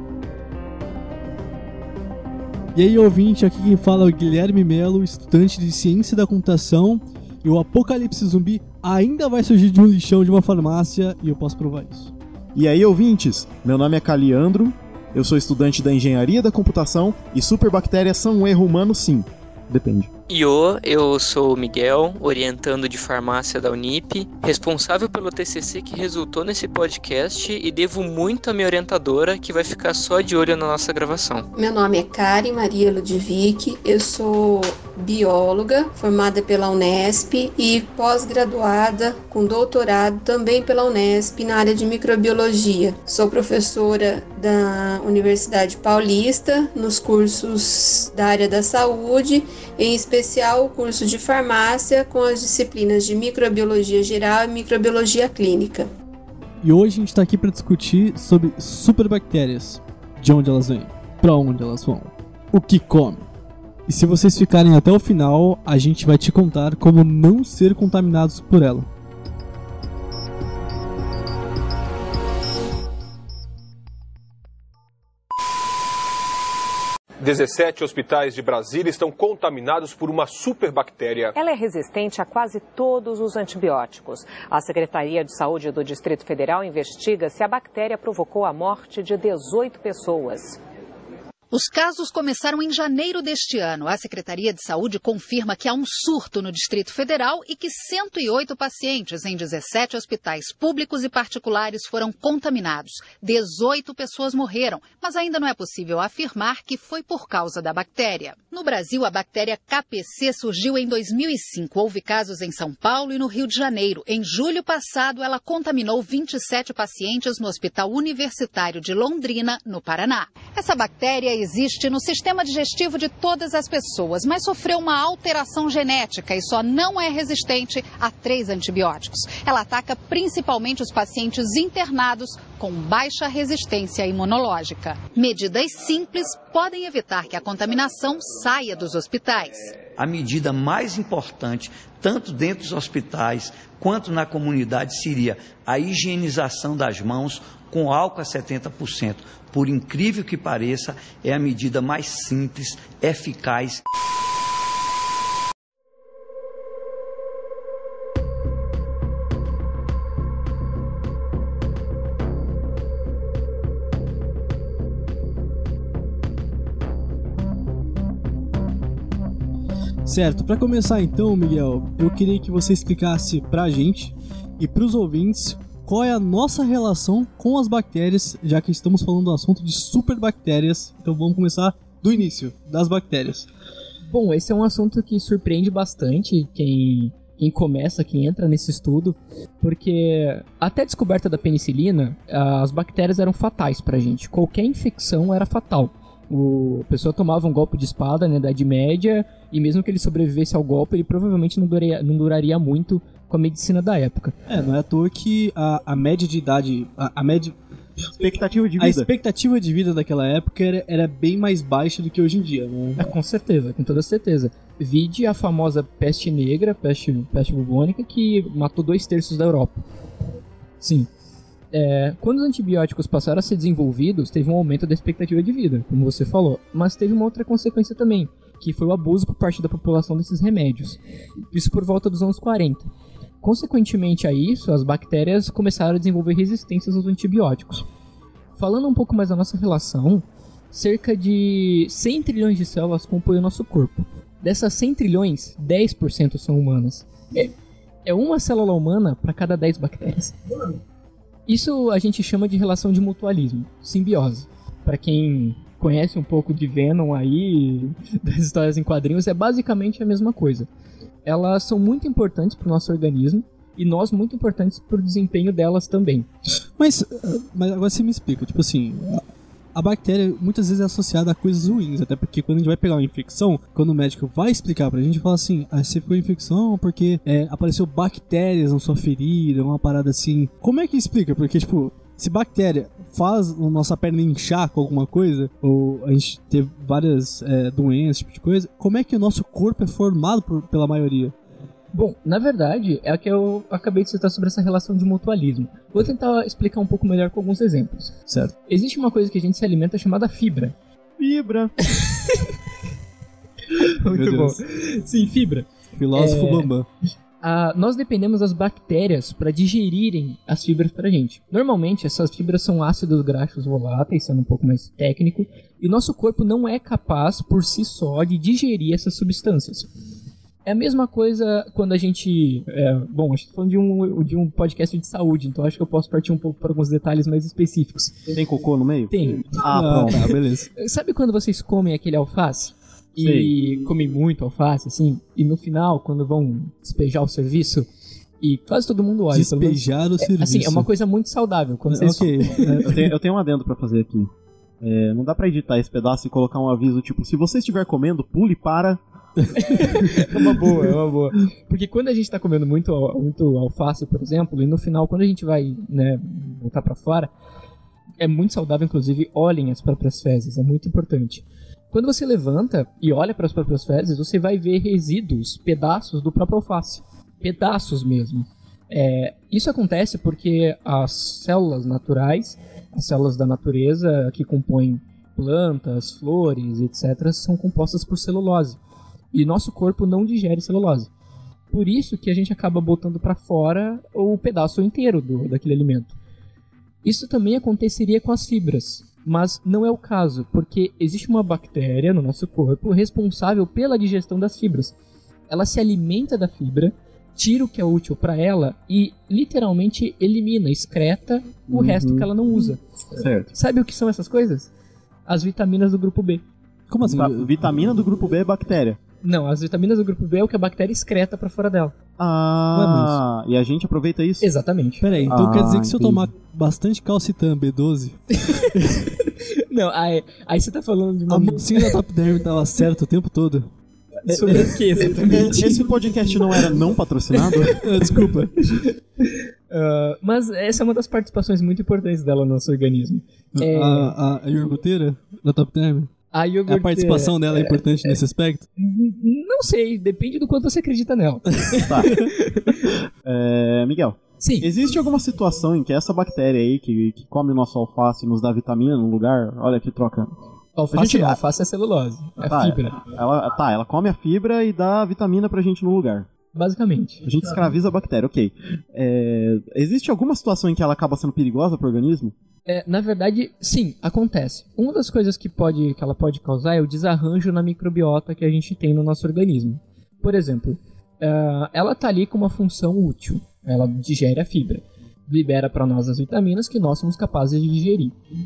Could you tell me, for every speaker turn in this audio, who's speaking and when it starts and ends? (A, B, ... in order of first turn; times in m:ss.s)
0:02.7-0:12.1 A
0:12.6-0:20.1 B
0:20.3-0:31.5 C
0:31.6-0:55.9 D
0:56.6-1:03.3 A
1:03.9-1:08.9 A
1:17.2-1:21.4 E
1:21.4-1:30.6 F
1:31.5-2:19.7 G
2:20.0-2:33.8 H
2:50.0-3:03.5 A
3:04.1-3:24.4 I
3:24.5-3:27.6 A
3:28.2-3:29.1 B
3:28.8-3:33.0 A
3:33.0-3:39.8 I
3:40.8-3:41.1 I
3:41.7-3:51.0 I
3:51.5-3:52.9 I
3:53.4-3:57.9 I
3:58.6-4:07.5 I
4:08.1-4:10.4 I
4:11.5-4:20.7 I
4:21.2-4:26.3 I
4:26.8-4:51.4 A
4:51.9-5:00.8 I
4:58.3-4:58.5 A
5:01.2-5:01.8 B
5:03.8-5:06.7 I
5:04.1-5:04.6 A
5:06.0-5:06.9 A
5:07.4-5:19.9 I
5:20.6-5:28.2 I
5:28.3-5:30.3 B
5:29.1-5:37.9 I
5:29.7-5:30.7 A
5:33.2-5:33.5 B
5:38.4-5:42.8 I
5:39.3-5:40.9 A
5:41.9-5:43.1 A
5:42.8-5:49.0 B
5:49.6-5:57.3 I
5:58.2-6:18.8 I
6:19.3-6:21.1 I
6:21.7-6:26.2 I
6:27.0-6:35.0 I
6:35.5-6:42.8 I
6:41.7-6:42.3 B
6:43.2-6:43.5 B
6:43.5-6:44.7 I
6:45.3-6:46.4 I
6:46.9-6:48.0 A
6:47.0-6:49.0 B
6:49.2-6:51.9 I
6:52.2-6:54.5 B
6:52.7-6:53.2 A
6:54.4-6:55.0 I
6:55.0-6:59.0 A
6:55.3-6:56.3 B
6:58.4-7:02.0 I
7:01.3-7:03.7 A
7:04.2-7:05.8 I
7:04.5-7:07.8 B
7:07.8-7:08.6 A
7:08.7-7:14.2 I
7:13.6-7:16.1 A
7:16.3-7:18.2 I
7:16.7-7:18.7 A
7:18.8-7:22.9 I
7:21.8-7:22.3 B
7:23.2-7:30.3 B
7:24.4-7:24.7 I
7:30.8-7:33.0 I
7:30.9-7:31.4 B
7:32.5-7:36.3 B
7:36.5-7:37.2 I
7:37.2-7:42.3 B
7:42.7-7:58.2 I